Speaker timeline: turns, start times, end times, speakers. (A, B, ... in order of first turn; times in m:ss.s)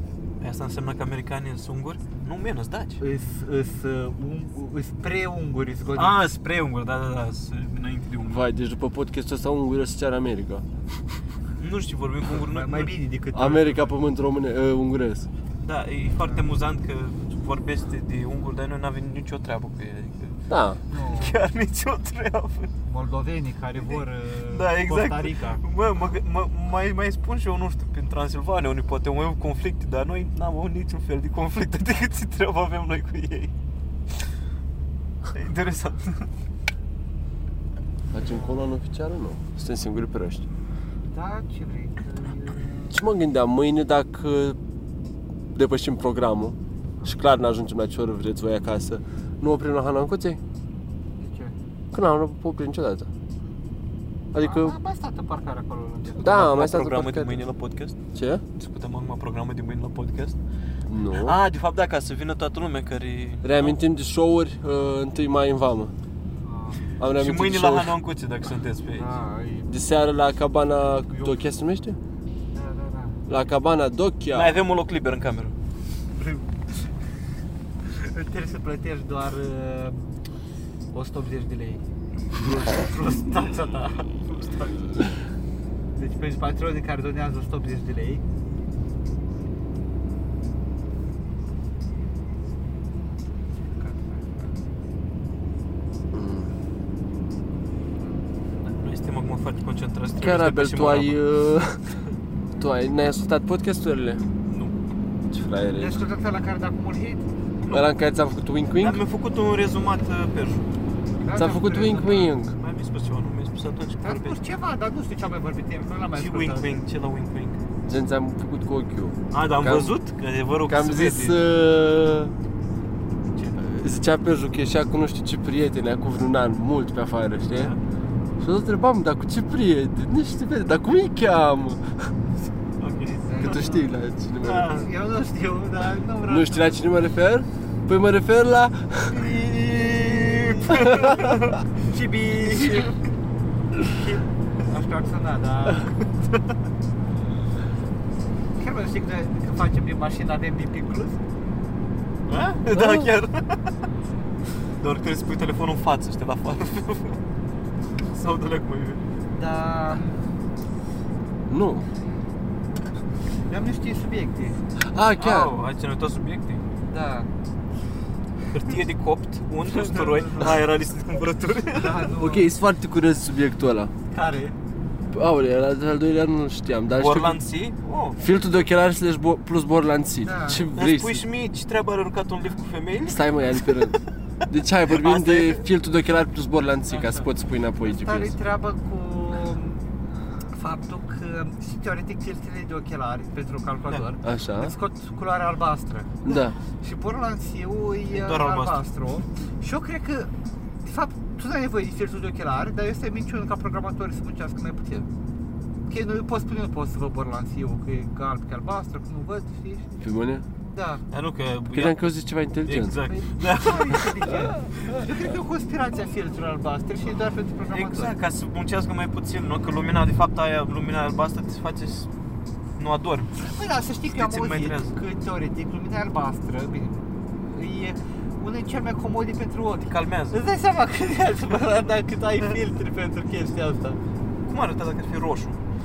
0:00.4-0:03.0 A
0:03.0-0:06.2 B
0:06.0-0:08.4 A
0:08.3-0:10.6 C
0:11.6-0:12.9 A
0:12.3-0:14.0 B
0:13.3-0:15.3 C
0:15.6-0:20.4 A
0:20.5-0:20.8 C
0:20.9-0:21.4 B
0:21.0-0:22.7 A
0:22.8-0:25.6 B
0:24.5-0:33.5 A
0:35.3-0:36.3 A
0:38.1-0:40.5 C
0:38.1-0:38.6 B
0:41.1-0:43.0 B
0:42.9-0:44.6 C
0:45.5-0:50.4 C
0:51.2-0:51.5 B
0:51.9-0:53.1 C
0:54.3-0:54.8 C
0:54.4-0:56.4 B
0:56.2-0:57.4 C
0:56.2-0:58.0 A
0:58.1-0:58.4 C
0:58.6-1:00.4 A
1:00.9-1:01.4 C
1:01.2-1:03.7 A
1:03.4-1:05.9 C
1:06.3-1:06.8 B
1:07.0-1:08.0 C
1:07.0-1:09.1 A
1:09.0-1:09.7 B
1:09.7-1:12.0 C
1:11.1-1:11.4 A
1:12.5-1:13.2 B
1:13.3-1:14.6 C
1:14.3-1:15.5 A
1:16.1-1:16.5 B
1:17.9-1:20.2 B
1:20.9-1:21.8 B
1:22.4-1:24.9 B
1:26.0-1:28.2 B
1:33.7-1:34.6 B
1:36.1-1:36.5 C
1:38.6-1:41.2 A
1:40.2-1:41.9 C
1:42.6-1:44.2 C
1:44.5-1:44.7 A
1:45.3-1:46.0 C
1:45.6-1:47.3 B
1:47.6-1:47.9 A
1:47.7-1:49.0 C
1:48.8-1:50.7 A
1:51.2-1:52.4 B
1:51.3-1:52.5 C
1:52.6-1:54.4 A
1:54.0-1:56.8 B
1:56.2-1:57.6 A
1:57.9-2:00.0 C
1:59.3-2:01.4 A
2:00.7-2:02.3 C
2:03.6-2:07.8 C
2:08.4-2:12.1 C
2:12.8-2:13.6 A
2:13.3-2:14.0 B
2:13.4-2:14.8 C
2:14.4-2:14.9 A
2:14.6-2:16.8 B
2:16.3-2:19.3 C
2:19.2-2:23.0 B
2:19.3-2:21.6 A
2:20.8-2:21.2 C
2:22.6-2:22.9 A
2:23.8-2:25.9 B
2:28.6-2:31.2 B
2:32.3-2:33.6 A
2:32.7-2:33.1 C
2:34.8-2:37.2 A
2:38.1-2:39.0 A
2:39.4-2:40.2 B
2:41.5-2:41.9 C
2:43.5-2:44.6 B
2:44.8-2:45.5 C
2:45.2-2:46.6 A
2:46.9-2:47.3 B
2:48.5-2:52.1 A
2:49.7-2:50.6 B
2:51.7-2:52.5 B
2:52.1-2:53.9 C
2:54.1-2:54.6 B
2:55.1-2:57.4 C
2:56.9-2:58.2 A
2:58.2-3:01.2 C
3:00.2-3:00.7 B
3:00.7-3:04.0 A
3:03.0-3:04.0 C
3:04.5-3:08.4 C
3:04.9-3:05.6 A
3:07.8-3:09.9 B
3:10.5-3:20.3 B
3:14.2-3:14.7 C
3:16.2-3:16.6 C
3:18.1-3:18.9 A
3:20.8-3:25.1 B
3:25.9-3:29.9 B
3:30.0-3:30.4 C
3:30.7-3:31.0 B
3:31.1-3:32.0 A
3:31.7-3:33.0 C
3:32.7-3:34.2 A
3:33.1-3:38.1 B
3:37.7-3:42.1 A
3:42.8-3:43.3 A
3:43.4-3:54.0 B
3:44.1-3:44.9 A
3:49.9-3:50.4 A
3:54.5-3:55.6 A